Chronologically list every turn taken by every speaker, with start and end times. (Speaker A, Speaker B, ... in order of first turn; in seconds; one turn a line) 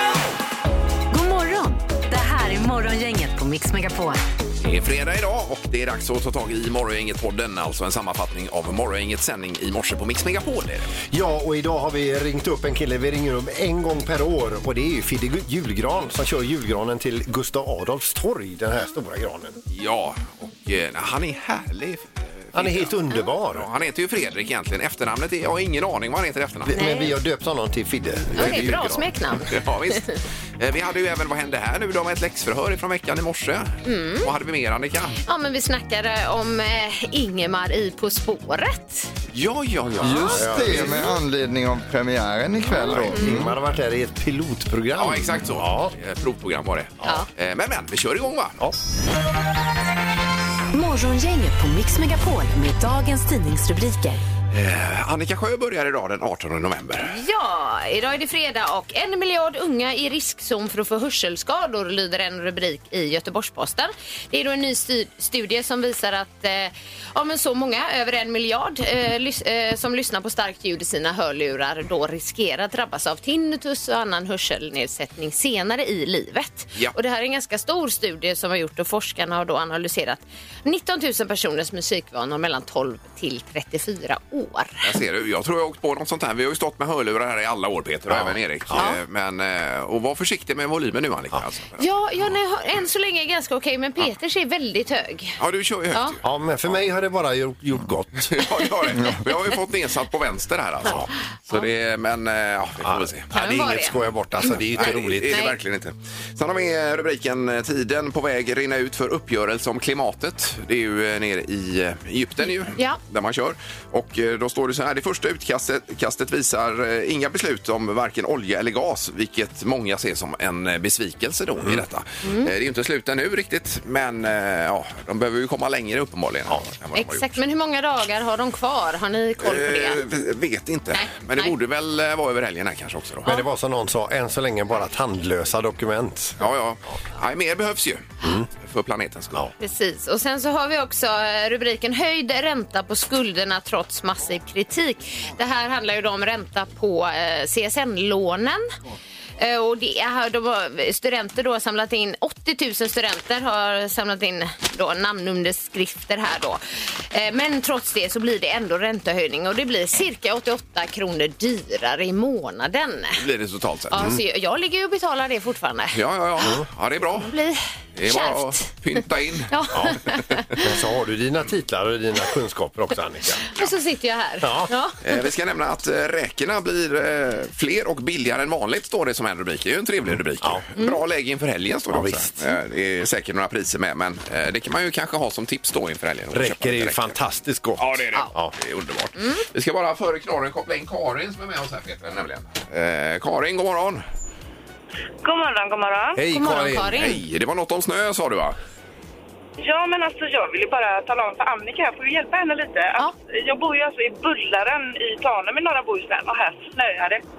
Speaker A: 1.1-4.2
Speaker B: 4.6-10.9
Speaker C: 11.1-19.6
Speaker B: 19.7-26.7
Speaker C: 22.5-23.7
Speaker C: 26.6-29.1
Speaker D: 26.7-27.1
Speaker D: 28.4-30.1
Speaker B: 29.5-35.2
Speaker D: 33.8-34.3
Speaker D: 35.2-39.1
Speaker B: 39.3-40.9
Speaker E: 40.0-43.5
Speaker C: 40.2-41.0
Speaker C: 42.7-45.9
Speaker B: 45.0-48.6
Speaker A: 50.7-54.2
Speaker B: 54.5-57.1
Speaker D: 57.0-84.8
Speaker B: 84.8-91.8
Speaker C: 88.1-89.0
Speaker D: 91.8-95.4
Speaker B: 95.4-96.2
Speaker C: 96.2-98.3
Speaker B: 98.3-103.2
Speaker C: 100.8-101.1
Speaker C: 102.8-105.4
Speaker D: 103.3-105.5
Speaker B: 104.7-127.3
Speaker D: 122.2-122.5
Speaker D: 126.9-130.0
Speaker B: 129.4-133.4
Speaker D: 130.9-131.5
Speaker C: 133.2-136.4
Speaker B: 136.4-139.4
Speaker C: 138.2-138.5
Speaker D: 139.6-148.6
Speaker D: 149.4-163.2
Speaker B: 163.2-164.1
Speaker D: 163.9-166.0
Speaker B: 165.9-167.3
Speaker D: 167.2-168.7
Speaker B: 167.9-169.5
Speaker D: 169.5-170.6
Speaker C: 169.7-170.0
Speaker C: 170.6-173.5
Speaker D: 173.5-175.2
Speaker C: 174.4-174.7
Speaker B: 175.0-187.2
Speaker C: 181.9-182.5
Speaker C: 186.3-188.5
Speaker B: 187.8-194.0
Speaker F: 195.2-196.2
Speaker C: 196.2-197.1
Speaker D: 196.3-197.2
Speaker B: 196.9-198.6
Speaker F: 199.6-207.2